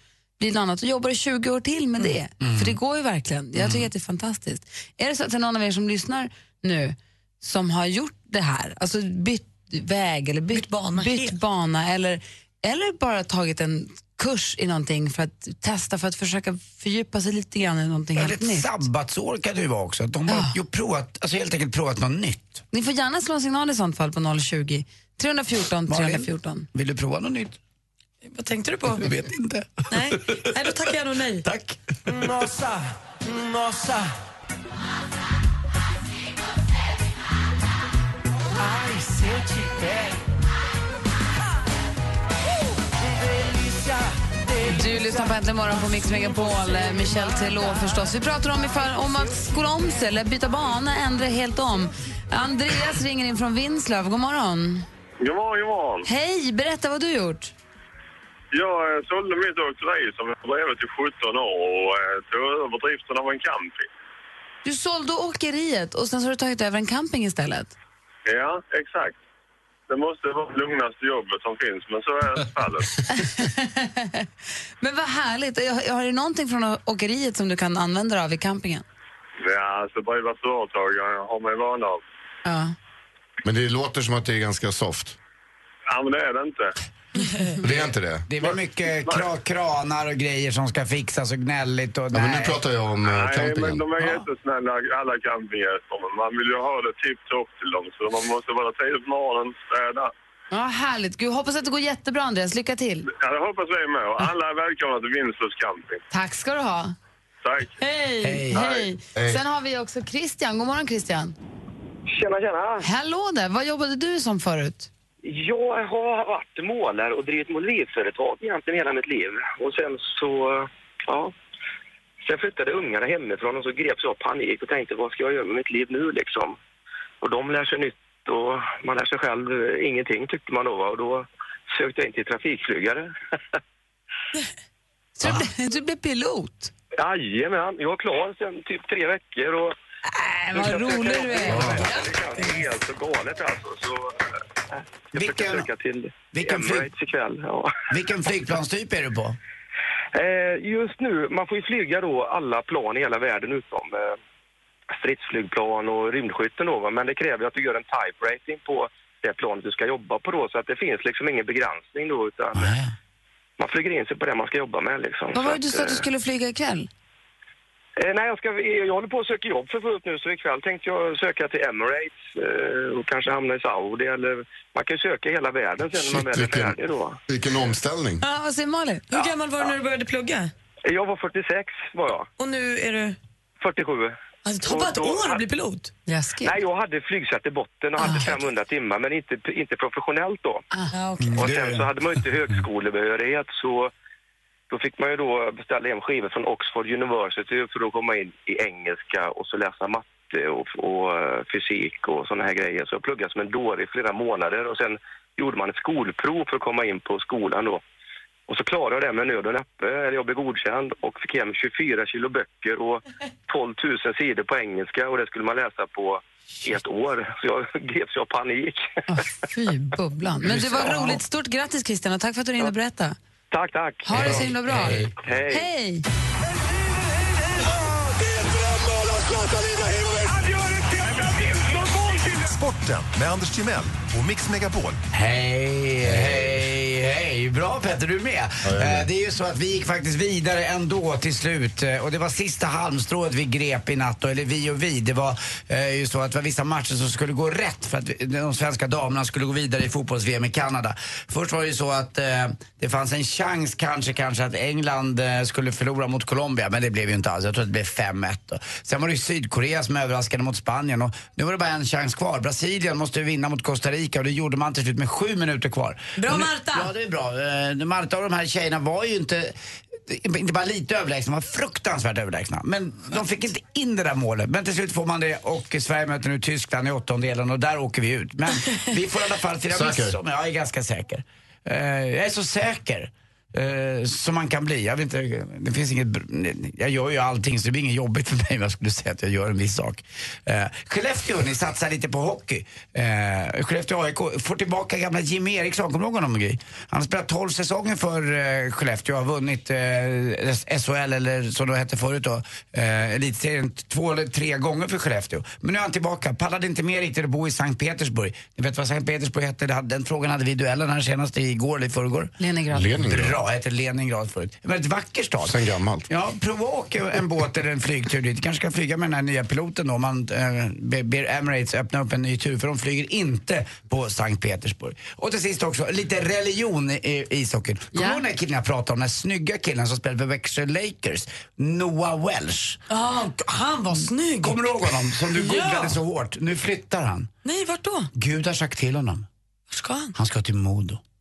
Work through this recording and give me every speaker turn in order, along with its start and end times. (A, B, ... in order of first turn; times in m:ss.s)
0:00.4-0:18.7 A
0:02.4-0:02.8 B
0:03.6-0:03.9 B
0:10.5-0:11.3 C
0:18.2-0:22.6 B
0:20.3-0:20.5 A
0:22.7-0:26.7 A
0:25.9-0:27.6 B
0:28.2-0:29.1 C
0:28.9-0:30.4 B
0:29.9-0:31.4 C
0:31.4-0:32.1 B
0:32.0-0:34.1 D
0:38.5-0:40.2 D
0:42.8-0:45.4 D
0:44.7-0:54.9 A
0:46.2-0:47.3 D
0:55.2-0:56.1 E
0:56.0-0:57.5 A
0:58.5-1:03.9 E
1:04.6-1:07.7 A
1:08.3-1:09.2 E
1:09.9-1:13.0 E
1:13.1-1:14.2 A
1:14.8-1:18.8 A
1:19.4-1:22.0 E
1:22.4-1:22.8 A
1:23.4-1:25.2 F
1:25.9-1:26.7 E
1:27.2-1:27.4 C
1:27.6-1:28.6 F
1:28.3-1:32.6 B
1:32.1-1:34.1 F
1:33.0-1:40.1 E
1:40.5-1:43.0 A
1:43.1-1:46.0 E
1:46.1-1:46.9 A
1:47.4-1:47.7 E
1:47.8-1:51.4 A
1:48.2-1:48.6 B
1:48.5-1:48.9 E
1:49.2-1:49.4 F
1:52.1-1:52.8 G
1:52.8-1:54.9 A
1:55.2-2:01.3 G
2:02.2-2:06.6 G
2:07.2-2:13.1 G
2:15.2-2:16.7 A
2:17.0-2:19.7 G
2:20.0-2:21.9 A
2:20.5-2:24.2 G
2:21.4-2:21.9 B
2:21.5-2:21.8 F
2:24.8-2:27.8 G
2:25.1-2:25.7 B
2:26.3-2:26.9 B
2:27.9-2:29.4 B
2:30.1-2:34.2 G
2:35.0-2:42.7 G
2:42.5-2:42.9 B
2:43.6-2:46.0 G
2:45.3-2:46.9 A
2:48.0-2:57.2 G
2:56.0-2:56.8 F
2:57.3-2:58.2 F
2:58.2-2:59.1 A
2:59.1-3:00.5 C
3:00.8-3:02.3 G
3:02.4-3:03.2 C
3:03.6-3:05.4 G
3:04.4-3:05.9 C
3:06.1-3:06.5 A
3:06.4-3:10.6 G
3:08.0-3:08.4 C
3:10.9-3:11.4 C
3:11.2-3:11.9 B
3:11.4-3:13.9 G
3:14.7-3:27.8 G
3:28.5-3:38.9 G
3:39.1-3:43.2 A
3:40.6-3:40.9 F
3:43.5-3:44.4 G
3:44.0-3:46.0 A
3:44.1-3:45.1 B
3:45.2-3:45.7 G
3:50.2-3:55.0 H
3:55.1-5:12.3 B
3:56.0-3:56.4 F
3:58.6-3:59.1 F
4:26.2-4:26.9 C
4:39.7-4:40.1 F
5:12.4-5:12.9 A
5:12.7-5:13.4 F
5:13.0-5:32.8 B
5:15.4-5:16.1 F
5:27.9-5:28.2 A
5:32.9-5:36.0 C
5:34.4-5:37.3 B
5:37.4-5:38.1 C
5:38.1-5:39.3 B
5:39.7-5:40.1 C
5:40.1-5:41.0 B